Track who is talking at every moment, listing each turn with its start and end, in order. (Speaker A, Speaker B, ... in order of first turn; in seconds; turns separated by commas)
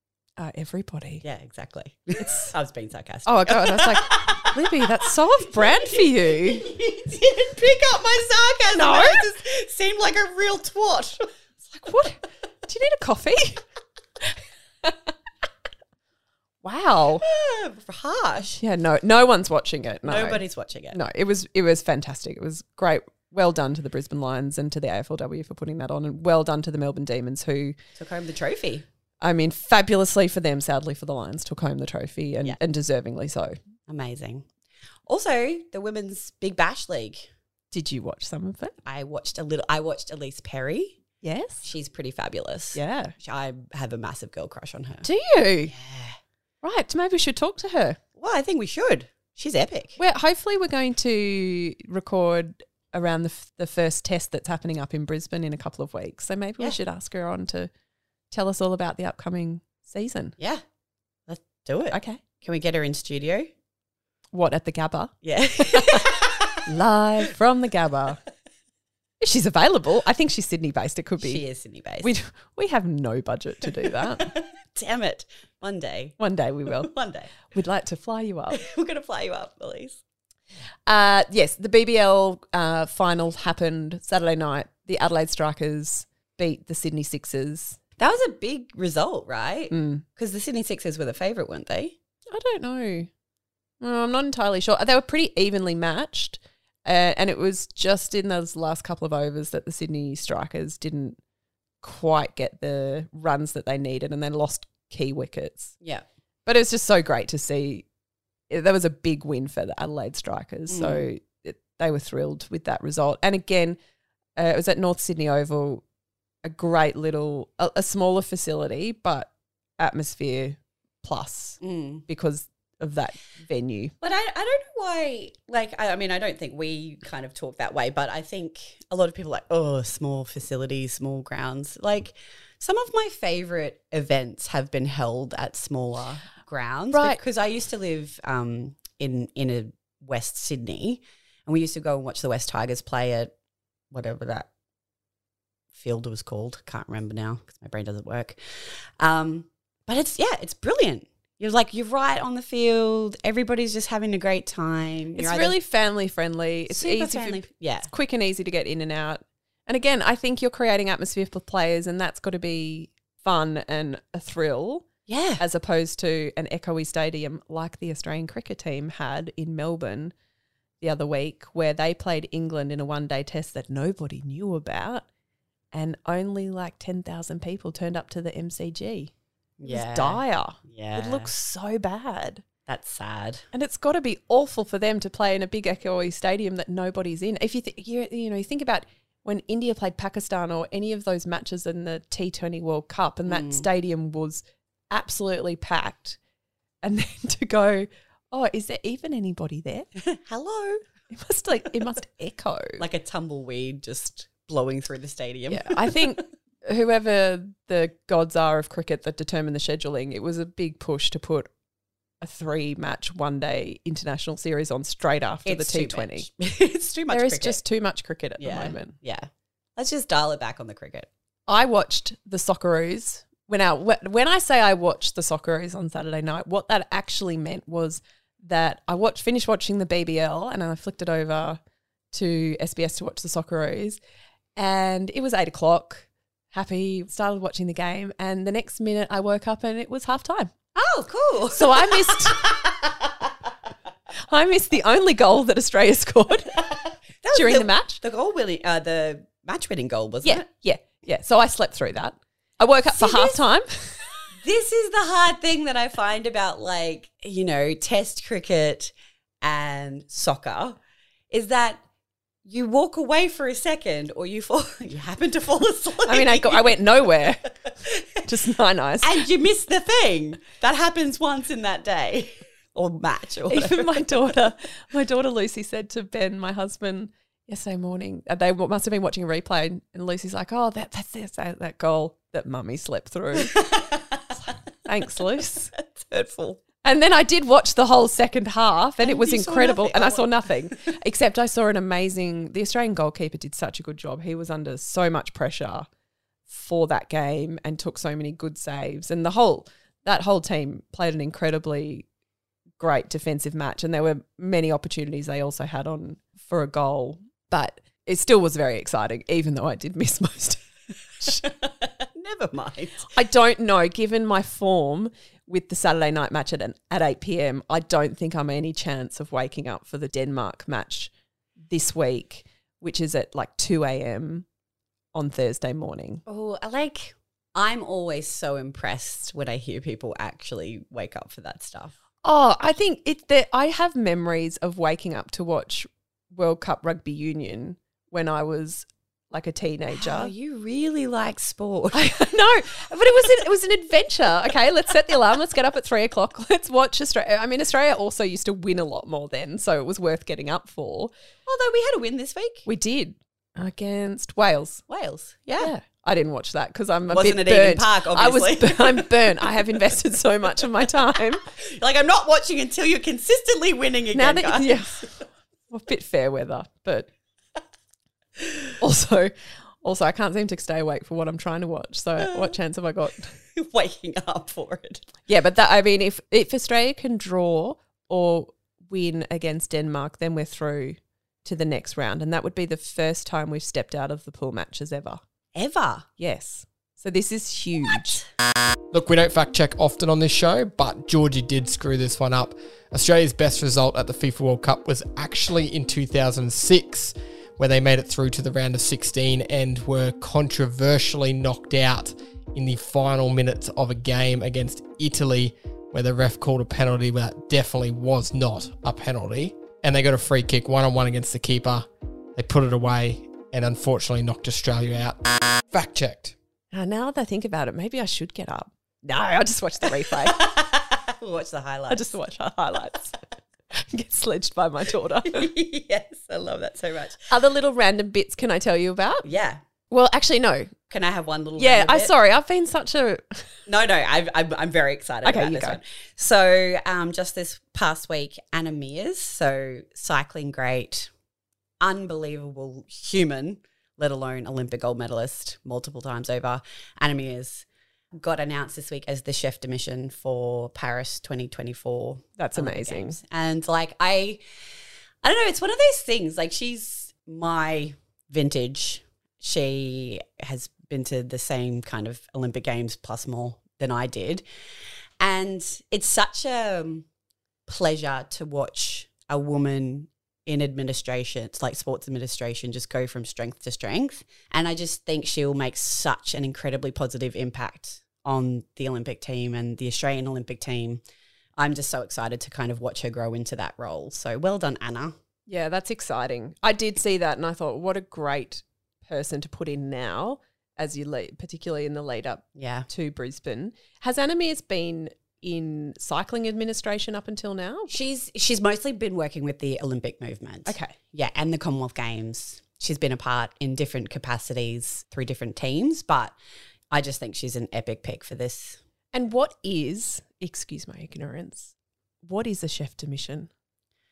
Speaker A: 0.4-1.2, Speaker B: 1.2-4.8, Speaker A: 2.2-2.5, Speaker A: 3.2-6.7, Speaker B: 5.5-11.3, Speaker A: 8.8-9.4, Speaker A: 11.7-13.6, Speaker A: 14.8-15.1, Speaker A: 16.6-17.2, Speaker B: 17.2-18.6, Speaker A: 18.6-27.8, Speaker B: 20.1-21.0, Speaker B: 28.0-28.9, Speaker A: 29.2-33.6, Speaker B: 33.9-34.5, Speaker B: 35.1-37.3, Speaker A: 37.7-38.8, Speaker B: 38.9-41.0, Speaker A: 41.2-41.7, Speaker B: 41.6-45.1, Speaker A: 42.8-43.1, Speaker A: 45.0-45.7, Speaker B: 45.7-46.2, Speaker A: 46.6-48.0, Speaker B: 48.2-50.0, Speaker A: 50.0-57.7, Speaker A: 58.3-60.4, Speaker B: 60.4-60.6, Speaker B: 61.3-63.5, Speaker A: 61.9-62.2, Speaker A: 64.3-68.2, Speaker B: 65.2-66.6, Speaker A: 69.2-71.4, Speaker B: 71.2-72.1, Speaker A: 72.0-74.3, Speaker B: 74.2-76.2, Speaker A: 76.2-76.9, Speaker B: 76.7-77.3, Speaker A: 77.4-78.6, Speaker B: 78.5-80.0, Speaker A: 80.9-87.8, Speaker B: 88.0-91.9, Speaker A: 89.7-90.0, Speaker A: 92.3-93.1, Speaker A: 93.8-101.2, Speaker A: 101.8-105.8, Speaker A: 106.5-107.8, Speaker A: 108.5-113.8, Speaker B: 110.7-111.1, Speaker A: 114.4-115.8, Speaker A: 116.4-123.9, Speaker B: 121.6-122.0, Speaker B: 124.0-143.3, Speaker A: 136.9-137.2, Speaker B: 143.9-144.5, Speaker B: 145.8-155.6, Speaker A: 155.2-164.9, Speaker B: 156.7-157.9, Speaker B: 165.1-165.4, Speaker A: 165.4-170.1, Speaker A: 170.8-175.1, Speaker A: 175.7-179.1, Speaker B: 179.6-181.3, Speaker A: 179.7-182.4, Speaker B: 182.7-183.5, Speaker A: 183.5-196.2, Speaker B: 193.3-193.7, Speaker A: 196.8-199.9, Speaker B: 200.0-200.8, Speaker A: 201.1-202.8, Speaker B: 202.8-206.2, Speaker A: 205.5-211.5, Speaker A: 212.2-216.3, Speaker B: 215.4-217.6, Speaker A: 217.1-218.9, Speaker B: 218.4-221.1, Speaker A: 221.5-231.6, Speaker A: 232.1-234.0, Speaker A: 234.6-240.5, Speaker B: 240.8-243.1, Speaker A: 241.5-242.6, Speaker A: 244.2-246.6, Speaker B: 246.6-250.5, Speaker A: 247.3-248.0, Speaker A: 250.2-254.0, Speaker B: 252.9-253.4, Speaker B: 254.4-260.8, Speaker B: 261.3-261.8, Speaker B: 262.4-267.1, Speaker A: 266.1-267.5, Speaker A: 268.2-269.3, Speaker B: 269.0-274.0, Speaker A: 273.5-283.7, Speaker B: 283.4-284.0, Speaker A: 284.4-285.7, Speaker B: 285.8-286.6, Speaker A: 286.8-295.9, Speaker B: 289.0-290.4, Speaker A: 296.5-302.1, Speaker A: 302.8-310.7, Speaker B: 311.4-313.1, Speaker A: 313.1-321.1, Speaker A: 321.7-324.4, Speaker A: 325.1-326.2, Speaker B: 326.3-331.9, Speaker A: 332.2-340.3, Speaker B: 339.9-342.1, Speaker A: 341.9-351.1, Speaker B: 351.5-352.7, Speaker A: 352.7-354.8, Speaker B: 354.9-355.7, Speaker A: 355.6-361.4, Speaker B: 357.1-359.1, Speaker B: 361.6-365.1, Speaker A: 364.1-367.1, Speaker A: 368.8-373.3, Speaker B: 373.6-375.1, Speaker A: 375.3-385.2, Speaker B: 385.6-386.1, Speaker A: 386.2-388.2, Speaker C: 388.9-416.4, Speaker A: 416.7-420.5, Speaker B: 420.2-422.2, Speaker A: 421.9-423.2, Speaker A: 423.7-425.5, Speaker B: 425.2-427.3, Speaker A: 427.3-429.3, Speaker B: 429.2-429.6, Speaker A: 429.9-430.7, Speaker B: 430.9-432.1, Speaker A: 431.6-433.5, Speaker B: 433.7-441.1, Speaker A: 435.2-435.8, Speaker B: 441.8-447.6, Speaker B: 448.2-454.4, Speaker A: 452.4-453.2, Speaker B: 455.2-464.4, Speaker B: 465.2-467.1, Speaker B: 467.7-481.0, Speaker B: 481.6-485.2, Speaker A: 485.5-497.9, Speaker B: 492.6-492.9, Speaker B: 497.9-506.3, Speaker A: 500.7-500.9, Speaker B: 506.9-508.8, Speaker A: 509.1-511.7, Speaker A: 512.2-513.5